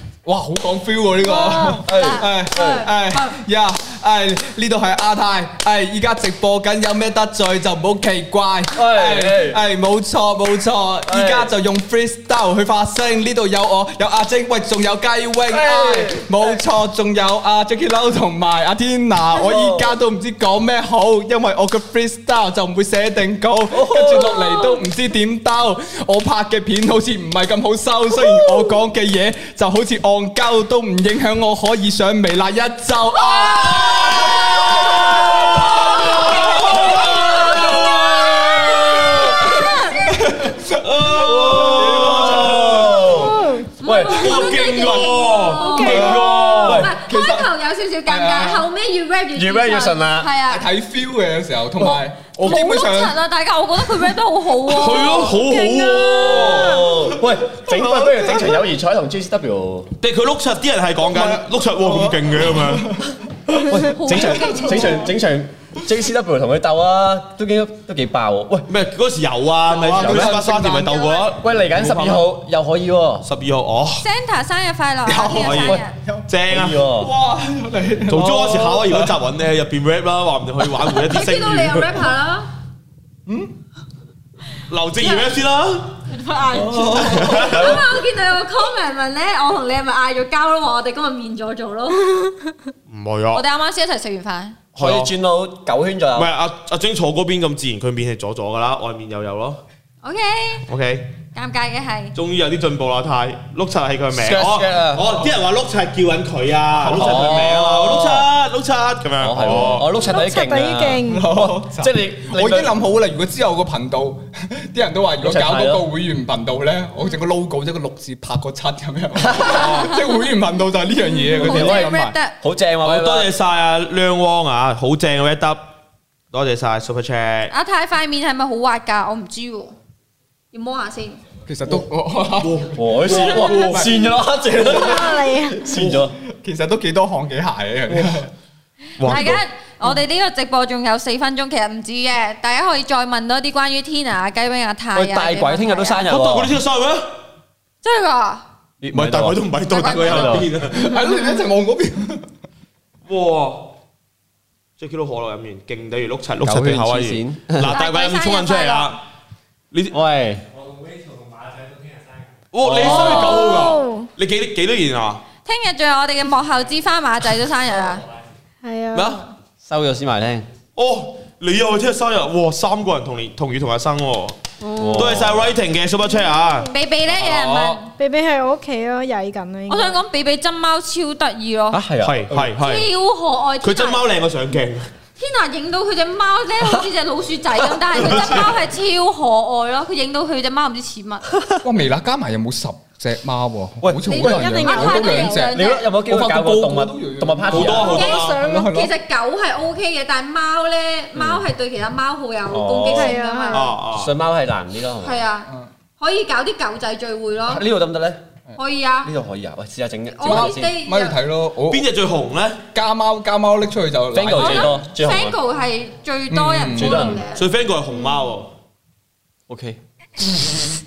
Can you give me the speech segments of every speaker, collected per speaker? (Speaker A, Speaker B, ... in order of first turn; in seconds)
Speaker A: 0.2-38.0, 39.1-43.3, 44.2-47.5, 48.0-48.7, 50.4-53.2, 55.1-55.3, 56.3-57.0, 57.7-58.6, 61.0-63.0, 64.1-64.9, 69.7-70.9, 75.0-76.3, 77.0-79.2, 83.2-83.5, 86.5-87.7, 106.8-108.0, 111.1-122.1, 131.4-134.0, 134.7-135.0, 135.7-138.3, 150.7-152.2, 177.1-177.8, 191.6-198.9, 210.2-211.8, 212.7-214.8, 216.3-217.2
Speaker B: 1.2-3.3, 37.5-40.2, 43.8-50.7, 52.4-55.4, 63.9-65.1, 70.6-71.3, 74.0-75.9, 81.0-82.5, 85.0-85.3, 86.1-92.1, 93.3-94.6, 100.0-100.7, 101.3-102.1, 121.3-122.3, 127.5-129.7, 130.5-131.2, 139.0-146.0, 147.8-148.4, 149.7-150.5, 157.7-158.9, 162.8-163.7, 165.4-168.0, 176.7-177.9, 179.7-181.8, 182.6-184.0, 185.2-191.2, 194.1-195.8, 197.8-203.7, 205.0-205.5, 206.0-207.6, 208.6-209.1, 210.1-211.2, 214.3-217.5
Speaker C: 1.6-2.9, 8.7-9.6, 11.1-11.5, 15.5-16.6, 19.4-19.9, 23.7-24.7, 41.1-44.4, 45.8-46.9, 49.3-50.3, 56.0-59.9, 63.7-68.7, 69.9-70.4, 71.4-73.3, 76.5-77.1, 86.5-87.9, 94.8-96.3, 104.1-105.1, 106.9-108.3, 109.2-112.7, 115.2-115.8, 119.2-119.9, 121.3-123.3, 132.7-136.2, 137.9-138.2, 144.9-146.6, 148.8-150.5, 156.4-157.8, 159.9-160.4, 162.6-163.5, 169.6-170.5, 174.8-175.5, 181.7-182.5, 187.6-188.4, 191.3-191.6, 193.8-194.7, 195.5-197.9, 201.1-201.4, 202.5-203.2, 203.9-205.2, 207.4-208.2, 209.0-210.7, 214.1-215.4, 216.7-217.2, 219.5-219.8
Speaker D: 34.2-39.6, 40.8-43.1, 44.1-46.9, 54.7-57.1, 57.7-58.2, 60.0-63.0, 68.7-72.3, 73.2-74.0, 75.3-76.9, 78.1-82.0, 84.7-86.0, 86.9-87.8, 92.9-93.4, 94.8-95.1, 96.1-99.6, 100.7-101.1, 102.1-109.9, 122.8-125.6, 126.3-127.5, 132.3-133.9, 139.0-139.4, 146.1-147.1, 148.9-150.9, 153.1-153.7, 154.8-159.0, 159.7-160.0, 162.5-165.2, 168.9-169.2, 170.8-174.4, 174.9-176.7, 182.0-182.9, 183.6-184.9, 188.0-188.5, 197.5-198.4, 203.5-204.1, 211.7-212.6, 217.3-218.5
Speaker E: 43.1-43.7, 45.5-46.1, 55.4-56.6, 110.0-111.3, 134.7-135.7, 162.9-164.1, 168.6-169.3, 177.9-180.0, 194.1-195.5, 202.9-203.7